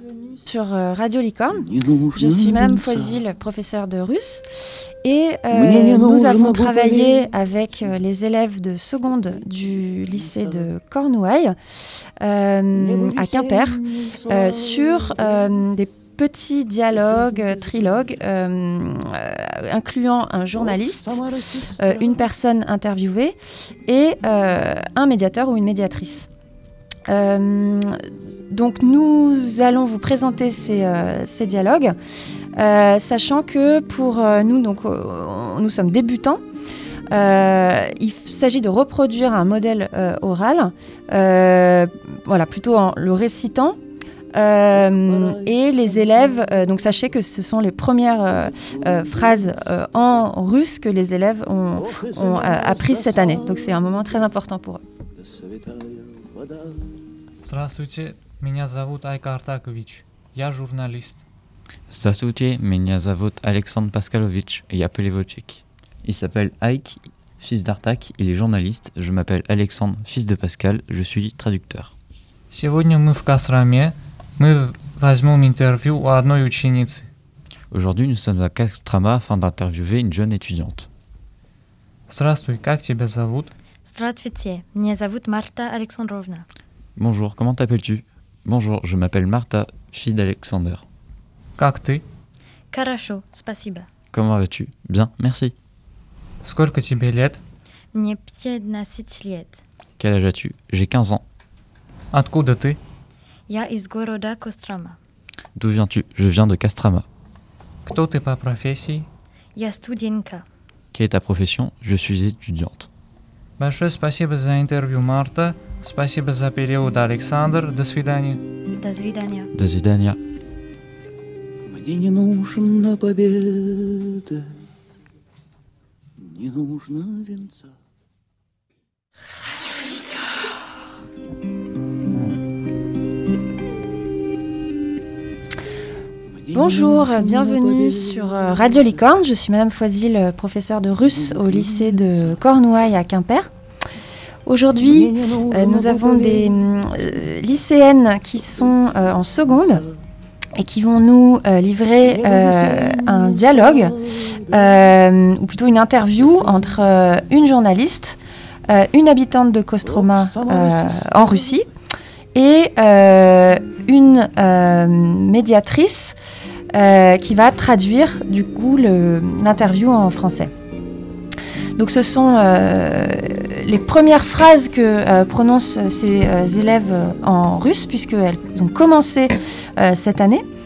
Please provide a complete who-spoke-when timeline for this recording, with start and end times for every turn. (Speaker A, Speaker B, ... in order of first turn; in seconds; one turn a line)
Speaker A: 0.4-4.4
Speaker B: 1.7-3.0
Speaker A: 5.0-11.5
Speaker B: 5.5-7.1
Speaker A: 12.2-21.2
Speaker B: 13.1-14.1
Speaker A: 21.7-26.3
Speaker A: 27.1-31.9
Speaker A: 32.6-36.4
Speaker A: 37.1-43.8
Speaker A: 44.4-54.8
Speaker B: 55.2-56.3
Speaker C: 57.4-61.2
Speaker D: 61.9-65.4
Speaker C: 62.1-66.9
Speaker D: 66.0-71.7
Speaker C: 67.5-68.7
Speaker C: 69.5-70.3
Speaker C: 71.0-71.9
Speaker C: 72.5-77.1
Speaker D: 77.7-80.8
Speaker C: 78.0-80.8
Speaker C: 82.1-83.5
Speaker E: 83.9-86.4
Speaker D: 87.0-90.8
Speaker C: 87.1-87.7
Speaker C: 90.0-90.4
Speaker C: 91.6-92.0
Speaker E: 92.7-93.9
Speaker D: 94.1-95.5
Speaker C: 94.9-95.4
Speaker C: 96.4-97.4
Speaker E: 97.9-99.6
Speaker D: 100.0-101.2
Speaker C: 100.2-101.2
Speaker C: 102.1-102.8
Speaker E: 103.5-105.0
Speaker D: 105.6-107.0
Speaker C: 107.8-109.1
Speaker E: 109.5-110.4
Speaker D: 110.9-112.8
Speaker C: 111.0-112.8
Speaker C: 113.6-118.4
Speaker E: 118.8-119.5
Speaker D: 119.7-120.2
Speaker C: 119.7-120.2
Speaker B: 121.7-124.5
Speaker B: 126.2-127.7
Speaker B: 136.5-138.0
Speaker A: 136.5-143.5
Speaker A: 144.4-149.8
Speaker A: 150.6-154.0
Speaker A: 154.5-158.2
Speaker A: 158.7-161.7
Speaker A: 162.3-166.2
Speaker A: 166.7-170.5
Speaker A: 171.8-180.4